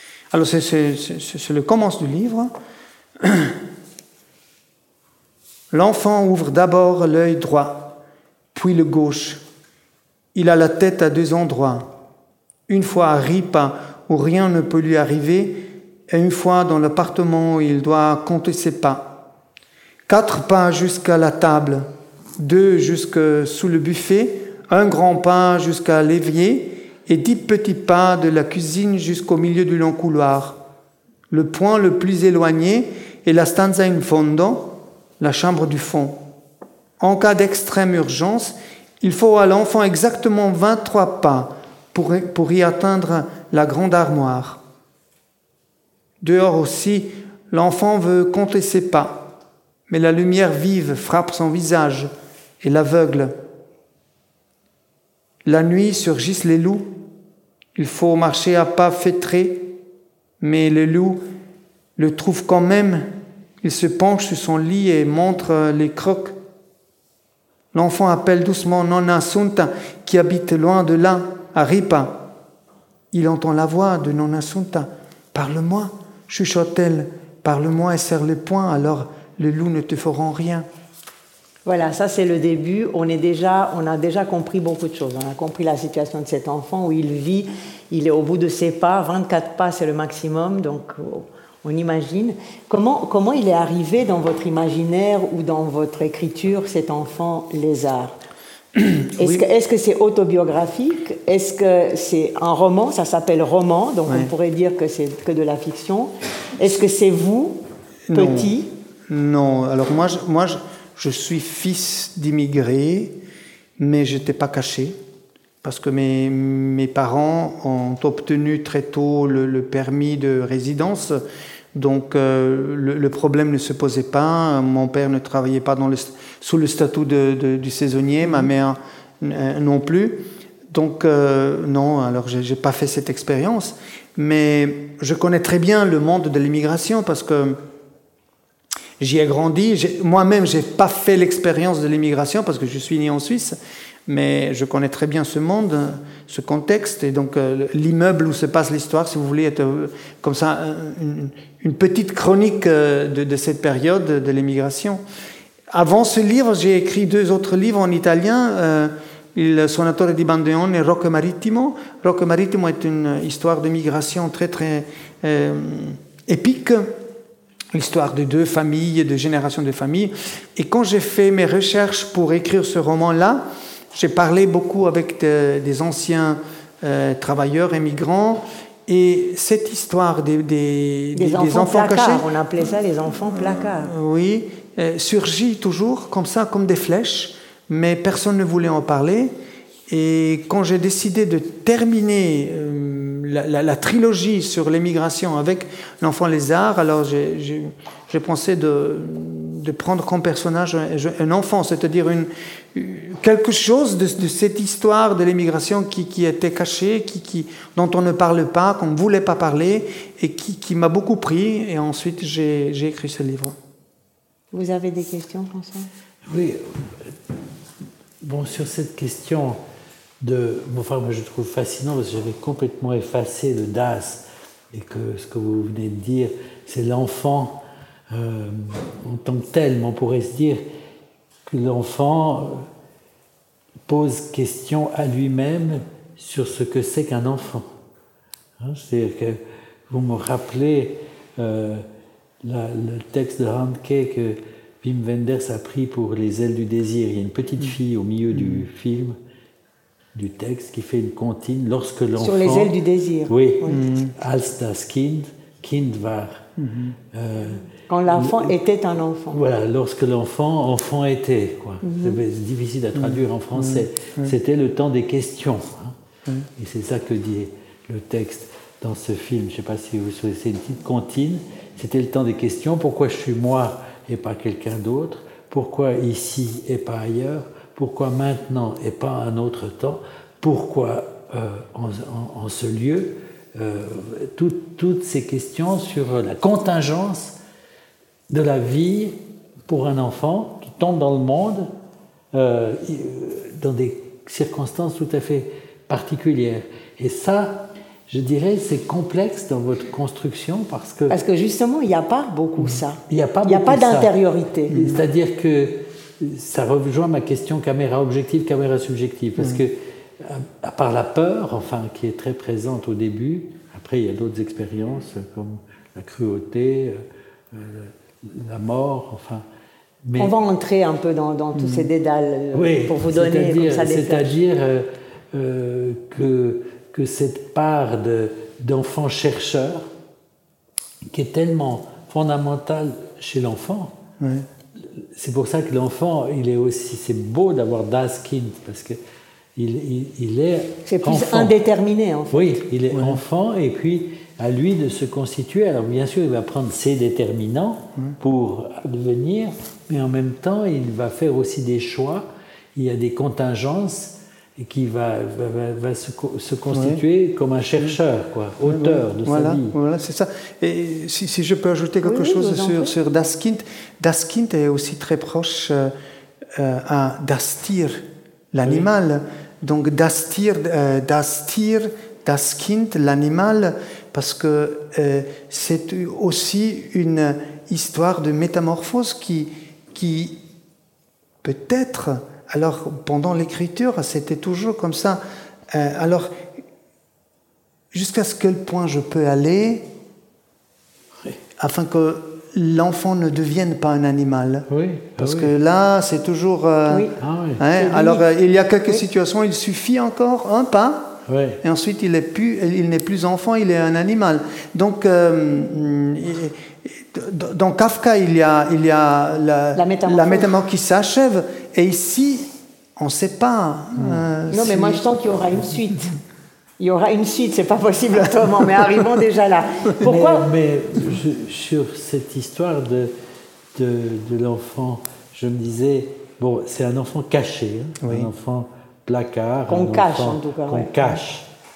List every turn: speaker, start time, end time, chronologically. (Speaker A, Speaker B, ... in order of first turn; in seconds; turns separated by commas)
Speaker A: 0.3-2.5, Speaker A: 3.2-3.6, Speaker A: 5.7-8.0, Speaker A: 8.6-9.4, Speaker A: 10.3-11.9, Speaker A: 12.7-19.2, Speaker A: 20.1-21.9, Speaker A: 22.4-30.6, Speaker A: 31.3-36.2, Speaker A: 37.0-44.6, Speaker A: 46.2-49.3, Speaker A: 49.9-53.3, Speaker A: 55.5-56.9, Speaker A: 57.8-59.8, Speaker A: 60.4-61.2, Speaker A: 62.0-63.1, Speaker A: 63.6-66.3, Speaker A: 67.7-72.3, Speaker A: 73.1-80.7, Speaker B: 81.7-98.2, Speaker A: 98.8-99.5, Speaker B: 99.2-107.6, Speaker A: 104.1-104.3, Speaker A: 108.1-108.5, Speaker B: 108.1-108.7, Speaker A: 109.1-113.2, Speaker A: 113.8-115.0, Speaker A: 115.6-121.2, Speaker A: 121.7-137.6, Speaker A: 139.0-155.0, Speaker A: 155.7-166.9, Speaker A: 167.7-182.3, Speaker B: 181.2-183.9, Speaker A: 183.3-189.3, Speaker A: 189.9-213.6, Speaker B: 214.5-215.9, Speaker C: 216.2-217.1, Speaker C: 218.2-219.6, Speaker C: 220.2-230.6, Speaker C: 231.5-232.7, Speaker C: 233.9-237.7, Speaker C: 238.6-241.9, Speaker C: 242.4-249.2, Speaker A: 248.3-248.7, Speaker C: 250.2-252.8, Speaker B: 252.2-253.8, Speaker C: 253.3-256.4, Speaker A: 253.7-254.2, Speaker A: 256.6-257.0, Speaker C: 257.1-258.5, Speaker B: 257.9-259.4, Speaker C: 259.3-265.9, Speaker B: 261.8-262.2, Speaker A: 263.0-264.4, Speaker C: 266.6-287.4, Speaker C: 288.3-289.2, Speaker C: 289.7-291.7, Speaker C: 292.3-301.1, Speaker B: 301.1-304.8, Speaker C: 303.1-304.1, Speaker C: 304.7-319.4, Speaker C: 320.0-320.4, Speaker B: 320.2-324.3, Speaker A: 321.6-321.9, Speaker C: 322.5-329.9, Speaker C: 331.1-334.0, Speaker A: 334.2-334.5, Speaker C: 334.8-339.0, Speaker C: 339.6-341.6, Speaker B: 340.9-342.6, Speaker C: 342.3-359.8, Speaker A: 342.9-343.2, Speaker A: 356.7-357.0, Speaker A: 358.6-365.9, Speaker B: 362.0-362.9, Speaker A: 366.6-368.0, Speaker A: 368.5-380.4, Speaker A: 381.4-386.3, Speaker A: 387.9-389.9, Speaker A: 391.6-394.7, Speaker C: 394.7-395.5, Speaker A: 395.2-415.0, Speaker B: 396.9-397.1, Speaker C: 397.2-397.6, Speaker B: 397.8-398.2, Speaker C: 401.3-401.6, Speaker B: 409.8-410.5, Speaker B: 414.5-416.1, Speaker B: 416.8-420.5, Speaker C: 420.0-423.1, Speaker C: 423.8-431.5, Speaker A: 428.0-428.3, Speaker B: 429.7-431.2